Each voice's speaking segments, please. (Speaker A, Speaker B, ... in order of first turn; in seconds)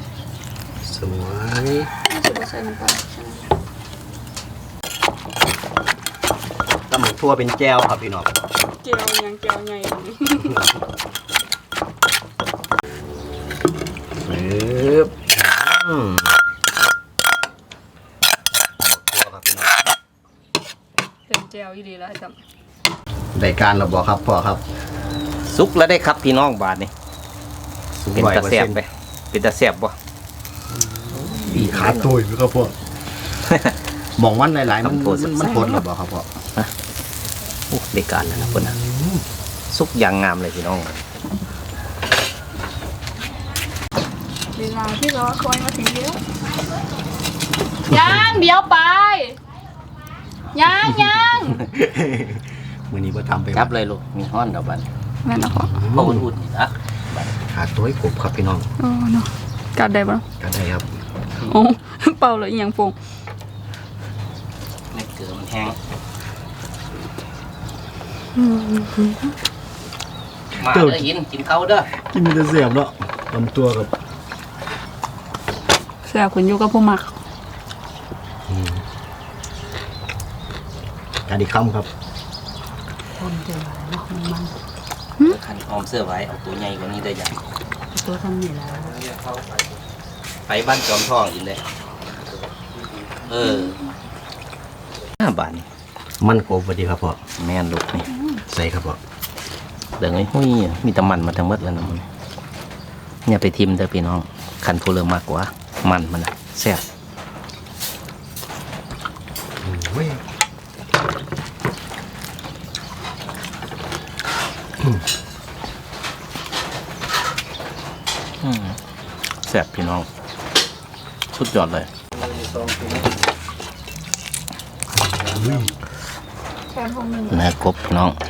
Speaker A: 0.8-1.9, 6.9-8.3, 14.2-15.3, 18.8-19.7, 23.4-24.6, 28.0-28.8, 31.0-32.8, 34.2-36.3, 38.2-39.2, 51.6-53.7, 55.6-56.3, 57.5-58.7, 60.4-60.9, 70.5-71.1, 71.9-73.9, 78.5-78.8, 81.3-81.9, 96.2-97.2, 98.5-99.0, 109.6-110.2, 122.2-123.2, 125.0-125.7
Speaker B: 2.1-3.5, 8.7-10.7, 21.3-22.4, 44.5-46.2, 47.9-49.4, 50.5-51.6, 55.2-55.7, 58.8-60.2, 61.4-63.0, 68.3-69.3, 76.0-77.1, 98.2-98.4, 126.7-127.5
Speaker C: 25.5-26.9, 28.1-29.9, 31.1-32.1, 33.4-33.7, 34.7-35.8, 37.7-38.8, 39.7-41.0, 53.5-54.9, 55.8-57.3, 64.9-65.8, 70.6-71.9, 85.2-87.4, 90.5-91.6, 93.3-93.8, 95.2-95.7, 97.4-98.1, 100.0-102.1, 103.3-106.8, 118.4-118.8, 119.5-120.1, 121.3-121.9, 127.3-128.2
Speaker D: 83.2-84.6, 87.9-89.0